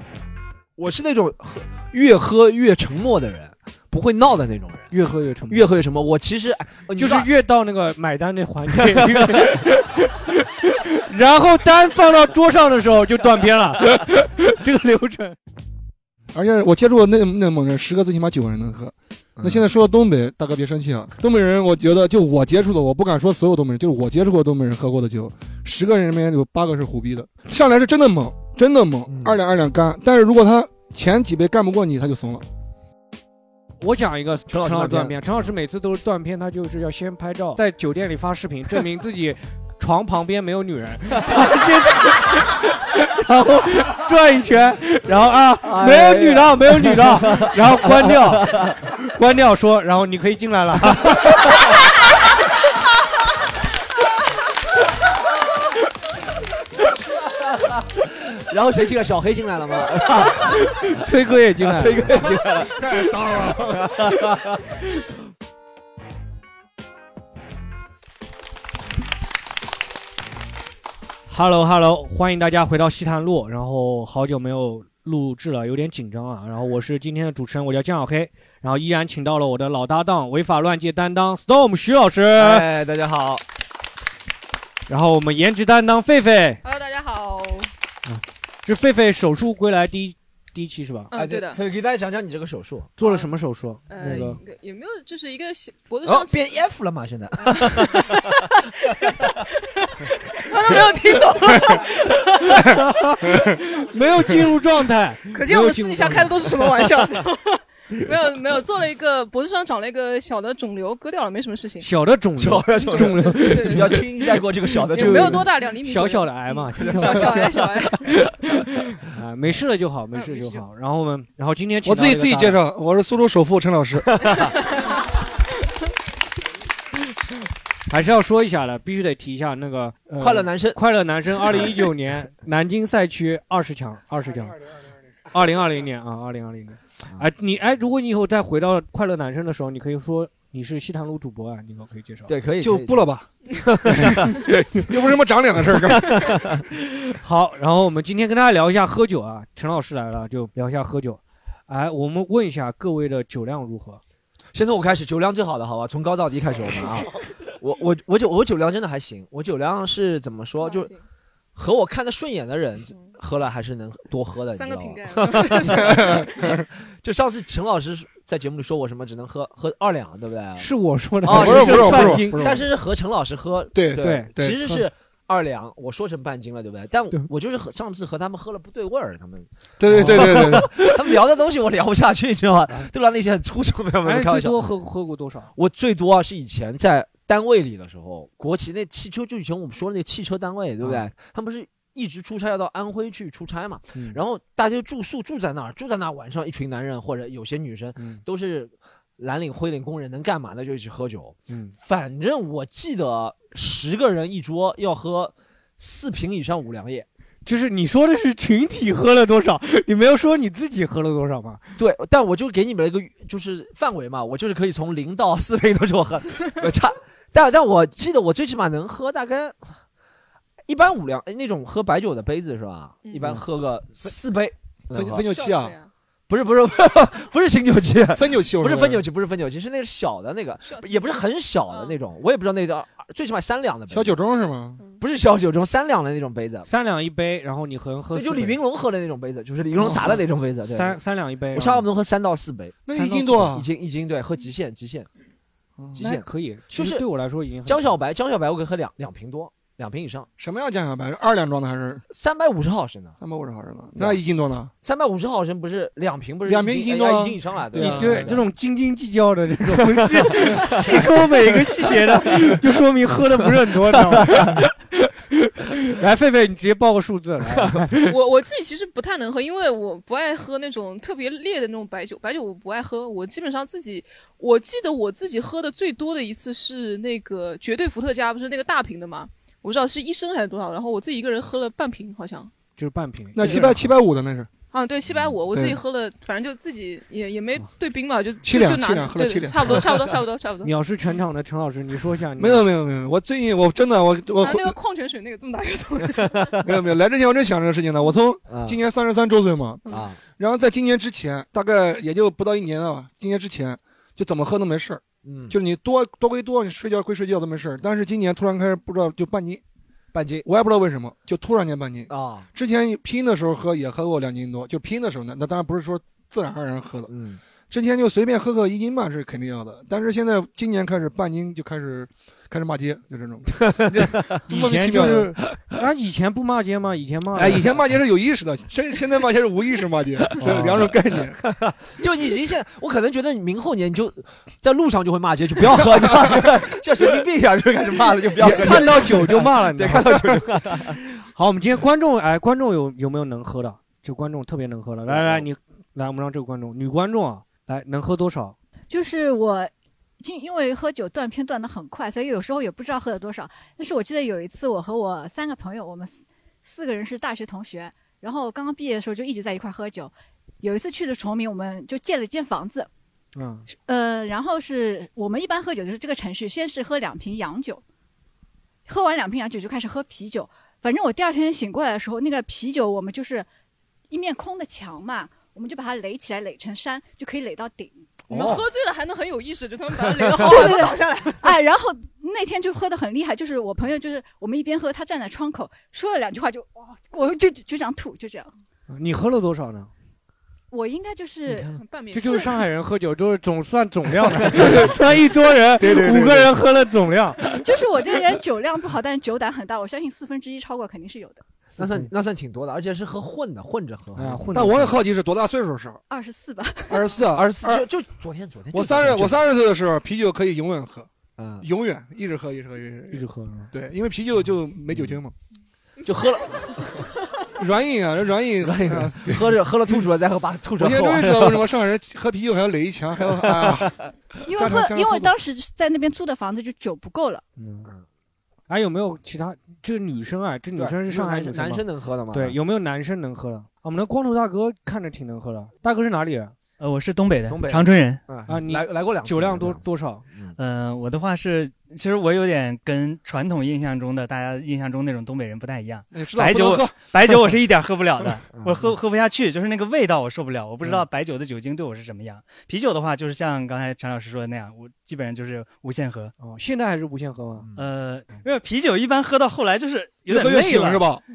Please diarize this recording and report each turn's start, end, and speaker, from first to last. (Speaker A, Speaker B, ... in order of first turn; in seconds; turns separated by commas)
Speaker A: 0.8-4.9, Speaker B: 4.9-5.7, Speaker A: 5.5-7.3, Speaker B: 6.9-15.4, Speaker C: 16.3-32.4, Speaker A: 19.4-19.6, Speaker A: 29.1-29.4, Speaker B: 33.8-51.5, Speaker A: 34.5-35.2, Speaker A: 45.6-48.8, Speaker A: 58.0-60.9, Speaker B: 60.6-62.2, Speaker A: 61.6-62.9, Speaker C: 62.5-64.0, Speaker A: 63.7-64.6, Speaker B: 71.3-82.6, Speaker A: 82.3-83.4, Speaker B: 84.9-86.6, Speaker D: 86.6-87.7, Speaker B: 88.1-91.1, Speaker D: 91.1-91.6, Speaker A: 91.1-92.9, Speaker B: 93.0-94.4, Speaker D: 93.0-93.3, Speaker D: 93.9-96.6, Speaker A: 96.0-98.2, Speaker D: 97.4-102.6, Speaker B: 102.4-106.5, Speaker D: 105.3-111.9, Speaker B: 111.8-114.1, Speaker A: 112.4-115.5, Speaker D: 113.0-114.0, Speaker D: 114.9-118.0, Speaker B: 115.0-118.1, Speaker A: 116.8-117.8, Speaker B: 119.1-122.6, Speaker D: 120.1-120.6, Speaker C: 121.8-124.2, Speaker B: 127.9-134.6, Speaker A: 130.2-130.8, Speaker B: 135.3-142.3, Speaker A: 142.3-143.1, Speaker C: 142.6-143.3, Speaker A: 143.6-144.6, Speaker C: 143.8-146.3, Speaker A: 145.9-146.6, Speaker B: 147.2-154.0, Speaker A: 154.5-160.9, Speaker D: 160.6-161.0, Speaker A: 161.6-170.7, Speaker D: 162.9-163.2, Speaker D: 164.5-166.3, Speaker C: 165.8-166.6, Speaker B: 170.6-172.4, Speaker A: 171.2-184.6, Speaker C: 171.3-172.7, Speaker C: 173.7-174.8, Speaker B: 174.0-174.3, Speaker C: 179.8-180.7, Speaker B: 179.9-180.6, Speaker B: 184.0-185.5, Speaker A: 185.5-207.1, Speaker B: 193.9-194.2, Speaker B: 198.0-198.2, Speaker B: 201.5-201.8, Speaker B: 207.4-211.6, Speaker A: 211.8-219.8, Speaker A: 220.7-225.3, Speaker C: 224.9-225.8, Speaker D: 225.2-225.9, Speaker A: 226.3-234.2, Speaker C: 228.1-229.0, Speaker D: 230.6-231.2, Speaker D: 231.7-232.0, Speaker C: 233.9-234.8, Speaker A: 235.0-236.7, Speaker B: 236.7-238.6, Speaker A: 238.1-241.0, Speaker B: 240.8-241.9, Speaker A: 241.5-245.1, Speaker C: 242.8-243.7, Speaker A: 245.9-247.1, Speaker B: 246.0-247.8, Speaker A: 247.6-250.3, Speaker C: 250.4-252.0, Speaker A: 252.1-253.2, Speaker C: 253.2-254.7, Speaker A: 254.8-258.4, Speaker C: 256.4-258.3, Speaker B: 257.8-268.1, Speaker D: 268.1-282.5, Speaker B: 282.8-283.9, Speaker C: 283.3-284.5, Speaker D: 284.7-290.7, Speaker C: 285.5-285.8, Speaker C: 288.4-289.8, Speaker B: 290.6-292.6, Speaker C: 292.4-294.8, Speaker D: 294.4-296.6, Speaker A: 296.3-296.7, Speaker C: 296.6-299.8, Speaker A: 298.5-298.8, Speaker A: 299.9-300.2, Speaker C: 300.4-309.6, Speaker A: 305.2-305.5, Speaker A: 310.1-310.4, Speaker C: 310.4-317.1, Speaker A: 312.1-312.5, Speaker A: 317.1-317.4, Speaker C: 317.7-325.4, Speaker B: 324.5-327.8, Speaker C: 327.3-331.4, Speaker B: 330.4-330.9, Speaker A: 331.4-341.0, Speaker C: 335.7-336.6, Speaker C: 338.4-339.1, Speaker B: 338.4-340.2, Speaker B: 341.2-348.6, Speaker A: 345.1-345.4, Speaker E: 348.9-362.9, Speaker B: 363.4-363.7, Speaker E: 363.7-367.8, Speaker E: 368.9-373.5, Speaker E: 374.1-378.3, Speaker D: 378.3-381.5, Speaker A: 378.3-378.7, Speaker A: 380.1-380.6, Speaker E: 380.3-388.5, Speaker B: 388.9-389.9, Speaker E: 390.7-391.7, Speaker B: 391.5-397.5, Speaker D: 391.8-392.6, Speaker C: 395.8-396.5, Speaker E: 397.5-401.4, Speaker A: 401.8-404.5, Speaker B: 404.1-404.9, Speaker C: 404.5-406.0, Speaker E: 406.1-407.2, Speaker C: 406.9-407.8, Speaker A: 407.3-409.4, Speaker C: 408.7-411.1, Speaker A: 411.4-411.6, Speaker C: 411.6-415.3, Speaker B: 413.1-413.7, Speaker A: 416.0-417.0, Speaker C: 417.6-419.6, Speaker A: 418.6-421.7, Speaker C: 420.8-425.3, Speaker A: 423.6-423.9, Speaker E: 424.4-427.4, Speaker B: 427.6-427.9, Speaker B: 428.7-436.5, Speaker A: 430.8-432.6, Speaker F: 436.8-438.2, Speaker A: 437.5-440.6, Speaker B: 438.5-440.2, Speaker F: 440.6-456.3, Speaker C: 446.1-447.0, Speaker A: 448.5-448.9, Speaker B: 456.4-457.7, Speaker F: 457.8-461.1, Speaker C: 460.3-461.2